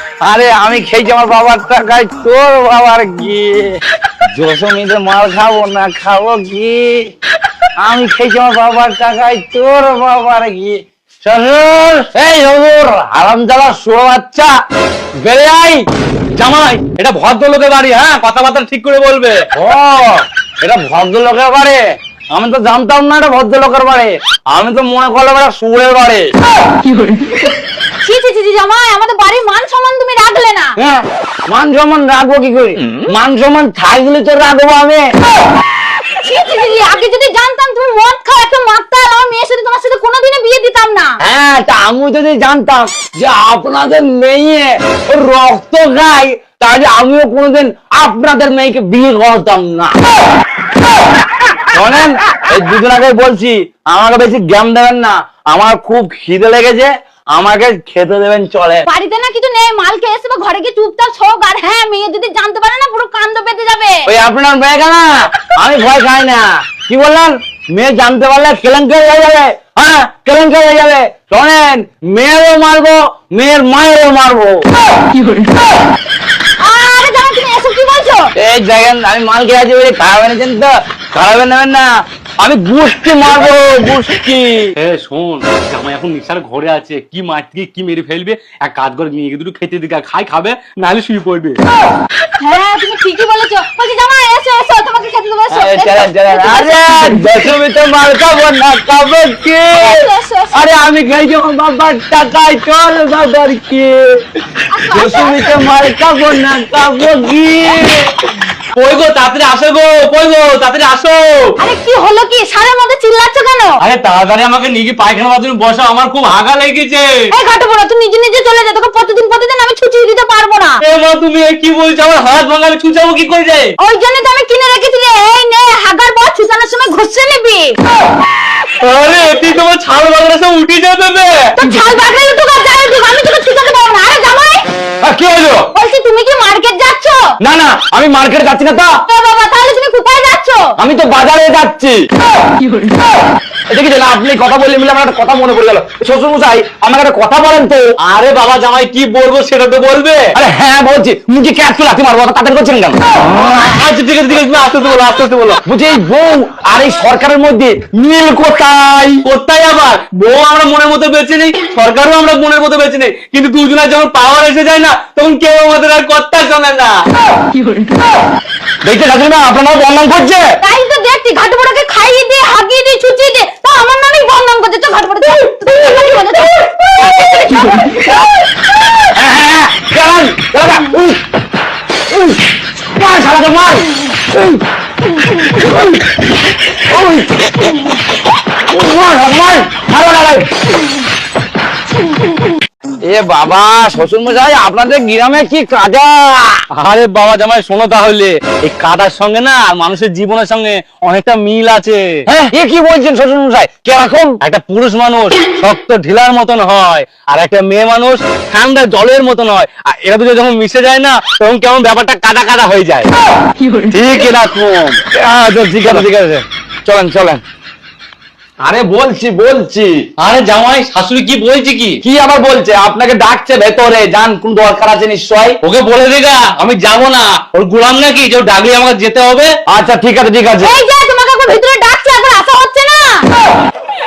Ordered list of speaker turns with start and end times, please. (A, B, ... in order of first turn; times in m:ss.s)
0:00.2-0:03.6 A
0:04.3-0:06.9 A
0:07.8-0:14.5 A
0:15.2-0:15.8 A
0:16.4-0:19.5 B
0:19.6-0:21.8 A
0:22.3-0:26.3 A
0:28.0-0:30.8 C
0:30.8-0:35.0 A
0:36.2-0:41.2 C
0:41.2-0:49.9 A
0:51.7-0:58.9 A
0:58.9-1:04.1 C
1:04.1-1:14.6 A
1:16.6-1:18.3 C
1:18.4-1:21.9 A
1:22.4-1:24.7 A
1:24.8-1:31.6 B
1:32.4-1:36.8 C
1:35.5-1:40.0 A
1:39.7-1:40.7 C
1:40.5-1:44.2 A
1:44.7-1:45.6 C
1:44.9-1:48.1 A
1:48.7-1:51.6 B
1:51.6-1:53.8 C
1:53.8-1:57.1 B
1:57.3-2:00.8 C
2:00.8-2:03.7 B
2:03.8-2:07.8 C
2:08.8-2:11.6 B
2:11.6-2:14.6 C
2:15.0-2:15.7 A
2:15.7-2:17.3 C
2:17.4-2:19.0 A
2:19.1-2:20.7 C
2:20.8-2:22.0 A
2:23.7-2:27.8 A
2:28.0-2:30.3 B
2:30.3-2:33.0 A
2:33.2-2:35.6 B
2:35.7-2:39.2 A
2:39.2-2:47.0 B
2:48.8-2:50.4 A
2:50.6-2:58.2 C
2:59.1-3:01.2 A
3:02.1-3:02.4 A
3:03.0-3:04.6 A
3:05.5-3:05.9 A
3:06.8-3:07.7 A
3:08.7-3:10.5 A
3:13.1-3:16.5 A
3:16.8-3:22.1 B
3:22.3-3:24.4 A
3:24.4-3:33.1 B
3:33.9-3:35.0 B
3:35.0-3:37.4 A
3:38.6-3:40.0 A
3:40.2-3:42.0 B
3:42.0-3:45.6 A
3:45.6-3:49.5 B
3:49.7-3:50.8 A
3:50.6-3:53.3 C